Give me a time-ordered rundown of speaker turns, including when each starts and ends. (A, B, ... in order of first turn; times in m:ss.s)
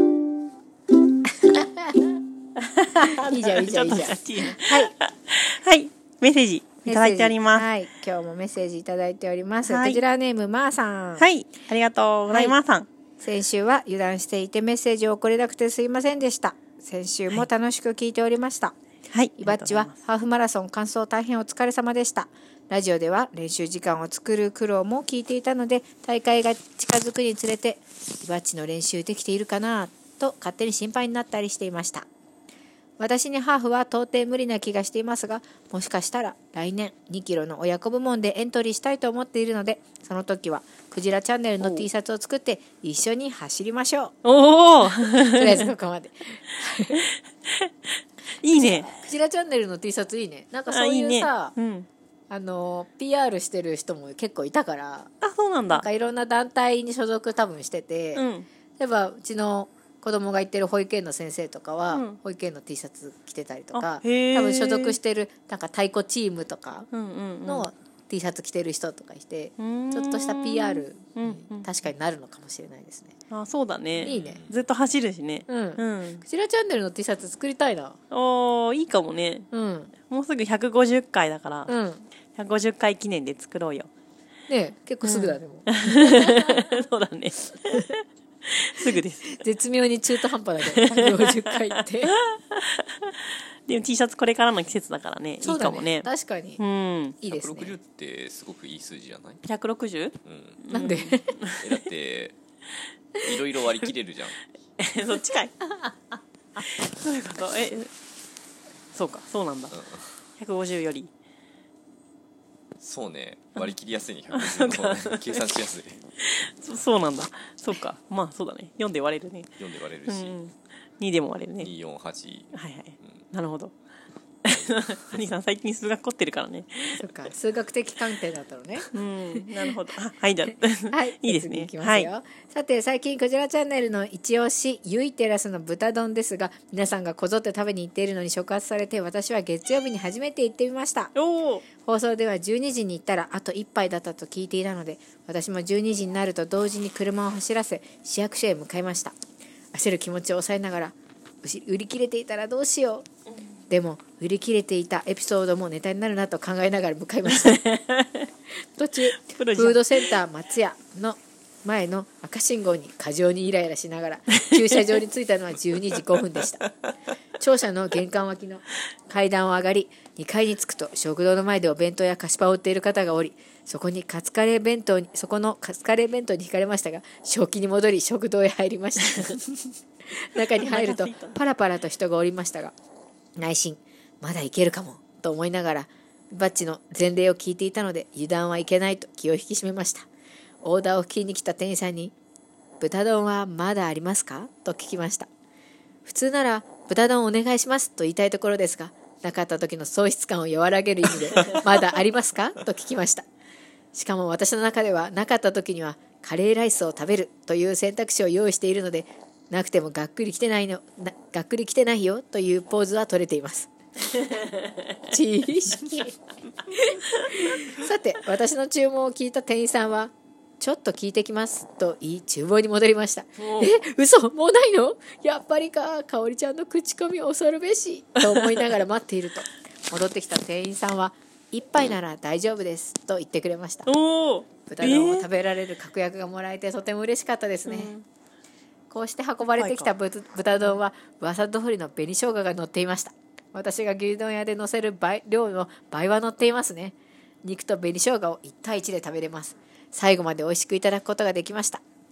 0:01.4-0:02.1 A
0:02.6-0:07.6 B
0:03.0-0:04.9 A
0:06.8-0:11.3 A
0:09.6-0:10.0 B
0:11.2-0:12.9 B
0:12.3-0:12.6 A
0:13.2-0:18.8 A
0:19.1-0:19.9 B
0:19.4-0:32.1 A
0:33.0-0:44.2 A
0:41.6-0:41.9 B
0:44.2-0:45.7 B
0:44.9-0:47.0 A
0:46.9-0:47.7 B
0:48.4-0:48.9 B
0:48.5-0:51.5 A
0:50.7-0:51.9 B
0:52.3-0:55.1 A
0:55.2-0:55.9 B
0:55.7-0:58.2 A
0:58.2-0:58.5 B
0:58.8-1:06.9 A
1:01.9-1:02.2 B
1:03.8-1:05.0 B
1:06.9-1:07.7 B
1:07.5-1:13.1 A
1:09.6-1:11.7 B
1:13.3-1:16.2 B
1:14.0-1:14.4 A
1:14.0-1:14.5 C
1:15.5-1:18.0 A
1:18.1-1:19.5 B
1:19.5-1:19.9 A
1:20.0-1:21.7 B
1:21.7-1:22.1 A
1:22.3-1:23.9 B
1:24.5-1:26.6 A
1:25.0-1:29.4 B
1:29.3-1:32.2 A
1:30.6-1:37.2 B
1:35.4-1:36.6 A
1:37.2-1:37.8 A
1:37.3-1:39.4 C
1:39.4-1:41.8 B
1:40.2-1:40.6 C
1:40.7-1:41.3 A
1:41.6-1:42.4 C
1:43.2-1:44.4 C
1:44.8-1:45.6 B
1:46.6-1:47.9 B
1:48.9-1:49.8 B
1:49.7-1:50.0 C
1:50.4-1:51.1 B
1:52.8-1:56.0 C
1:54.3-1:55.6 B
1:56.2-1:59.5 B
1:59.6-2:00.4 C
2:00.1-2:01.7 B
2:01.6-2:03.2 C
2:02.5-2:03.7 B
2:04.4-2:07.0 B
2:04.5-2:04.9 C
2:07.0-2:09.7 A
2:08.9-2:12.1 B
2:10.9-2:21.1 A
2:21.2-2:21.6 B
2:21.8-2:29.2 A
2:29.7-2:33.1 A
2:33.7-2:37.7 A
2:37.3-2:38.3 B
2:38.8-2:46.7 A
2:39.2-2:40.1 B
2:47.4-2:59.6 A
3:00.1-3:02.7 A
3:00.6-3:01.4 B
3:03.4-3:10.1 A
3:10.6-3:12.2 A
3:12.8-3:15.3 A
3:16.0-3:23.3 A
3:23.9-3:33.7 A
3:35.1-3:53.9 A
3:37.2-3:37.6 B
3:43.4-3:43.7 B
3:48.2-3:48.7 B
3:53.9-3:55.3 B
3:54.7-3:57.9 A
3:57.7-3:58.0 B
3:58.9-4:11.8 A
3:59.6-3:59.9 B